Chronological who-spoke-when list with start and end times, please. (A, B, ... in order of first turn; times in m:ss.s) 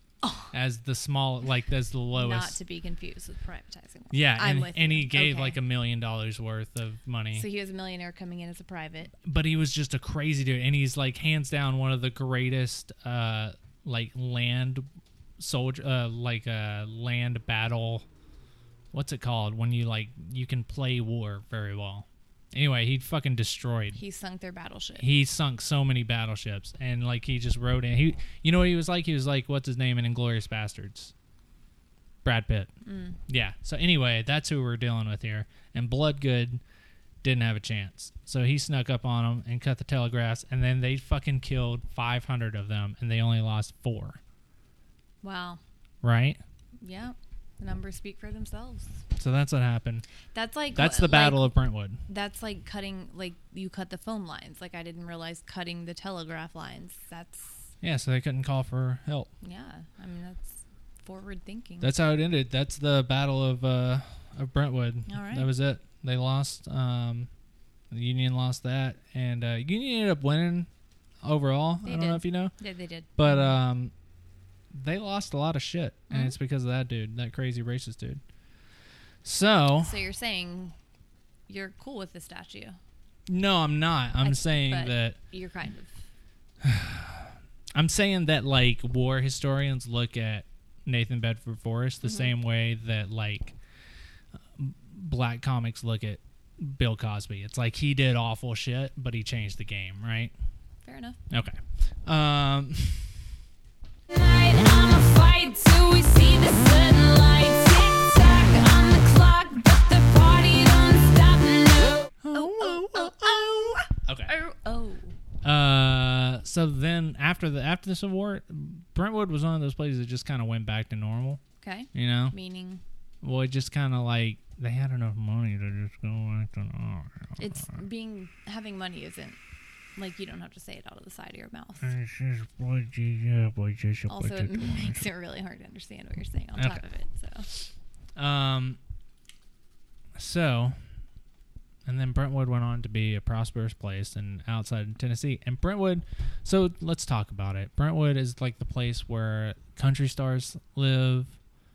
0:00.2-0:00.5 A
0:00.5-0:02.6 B
0:02.1-0:05.6 A
0:04.1-0:07.5 B
0:07.3-0:09.1 A
0:09.2-0:14.9 B
0:15.4-0:18.1 B
0:18.9-0:24.0 B
0:24.0-0:25.1 A
0:25.0-0:31.1 B
0:32.2-0:32.7 B
0:32.8-0:33.2 A
0:33.3-0:36.6 B
0:37.2-0:44.2 B
0:45.2-0:45.6 A
0:46.0-0:46.4 B
0:46.8-0:49.0 A
0:49.2-0:50.1 B
0:50.3-0:51.5 A
0:50.8-0:52.0 B
0:52.1-0:57.7 A
0:57.8-0:59.3 B
0:59.4-1:01.9 A
1:01.8-1:07.3 B
1:05.1-1:05.5 A
1:07.9-1:10.7 B
1:11.2-1:12.5 B
1:11.8-1:13.6 A
1:13.2-1:13.9 B
1:14.7-1:18.2 B
1:16.1-1:16.4 A
1:19.2-1:20.0 B
1:19.8-1:20.8 A
1:21.5-1:22.8 A
1:23.3-1:25.2 B
1:24.2-1:26.0 A
1:26.6-1:33.6 B
1:32.0-1:32.3 A
1:34.6-1:40.3 B
1:40.8-1:41.2 A
1:41.3-1:43.2 B
1:44.1-1:52.1 C
1:52.2-1:54.3 B
1:52.3-1:55.2 A
1:55.4-2:01.4 B
2:01.6-2:02.8 A
2:01.9-2:02.4 B
2:03.2-2:07.8 B
2:07.4-2:09.4 A
2:10.0-2:11.9 A
2:11.8-2:15.0 B
2:14.1-2:17.5 A
2:16.6-2:16.8 B
2:18.2-2:18.8 B
2:20.2-2:20.8 B
2:21.9-2:31.4 B